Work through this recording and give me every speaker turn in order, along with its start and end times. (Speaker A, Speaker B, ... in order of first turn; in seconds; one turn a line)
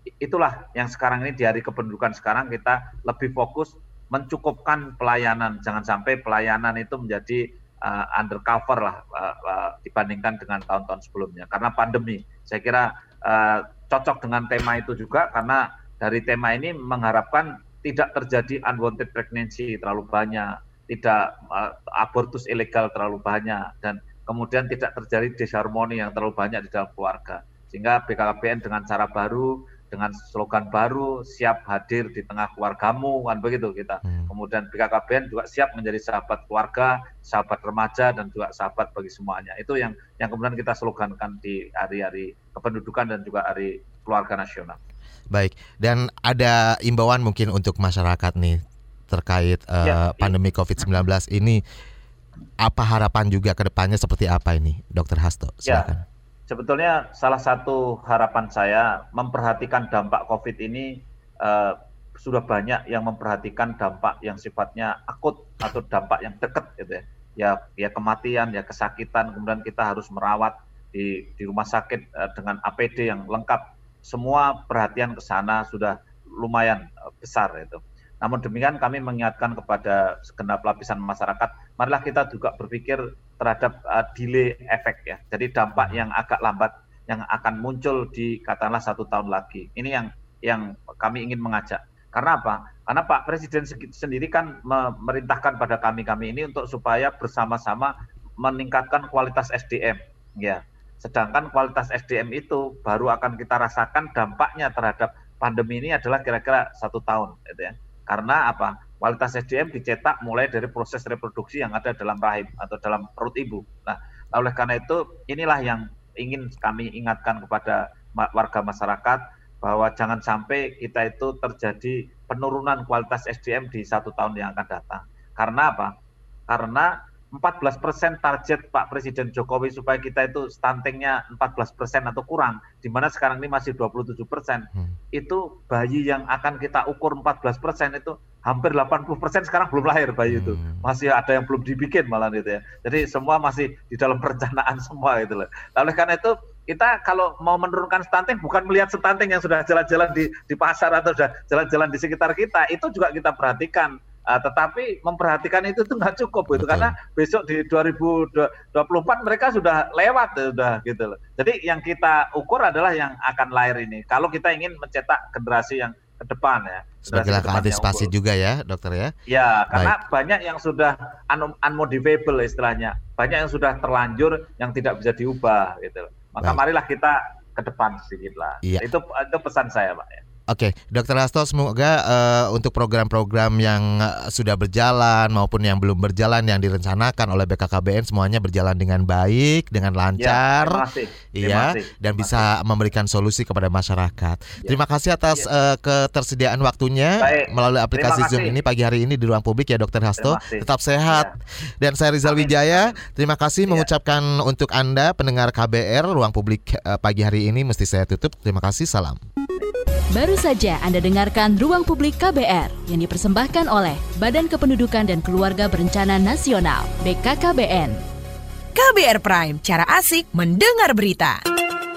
Speaker A: 0.2-44.8
Speaker B: 34.0-34.3
Speaker B: 45.3-48.6
Speaker B: 49.1-51.6
Speaker A: 49.8-50.9
Speaker B: 52.6-56.0
Speaker A: 55.7-55.9
Speaker A: 56.5-125.9
Speaker B: 85.8-86.0
Speaker A: 126.5-168.1
Speaker B: 140.3-140.9
Speaker B: 156.5-157.0
Speaker B: 167.1-169.1
Speaker A: 169.3-180.2
Speaker B: 169.7-170.0
Speaker B: 180.5-209.2
Speaker A: 190.2-192.5
Speaker A: 197.2-198.6
Speaker A: 200.2-201.3
Speaker A: 202.2-203.0
Speaker C: 210.1-218.0
Speaker D: 218.8-221.4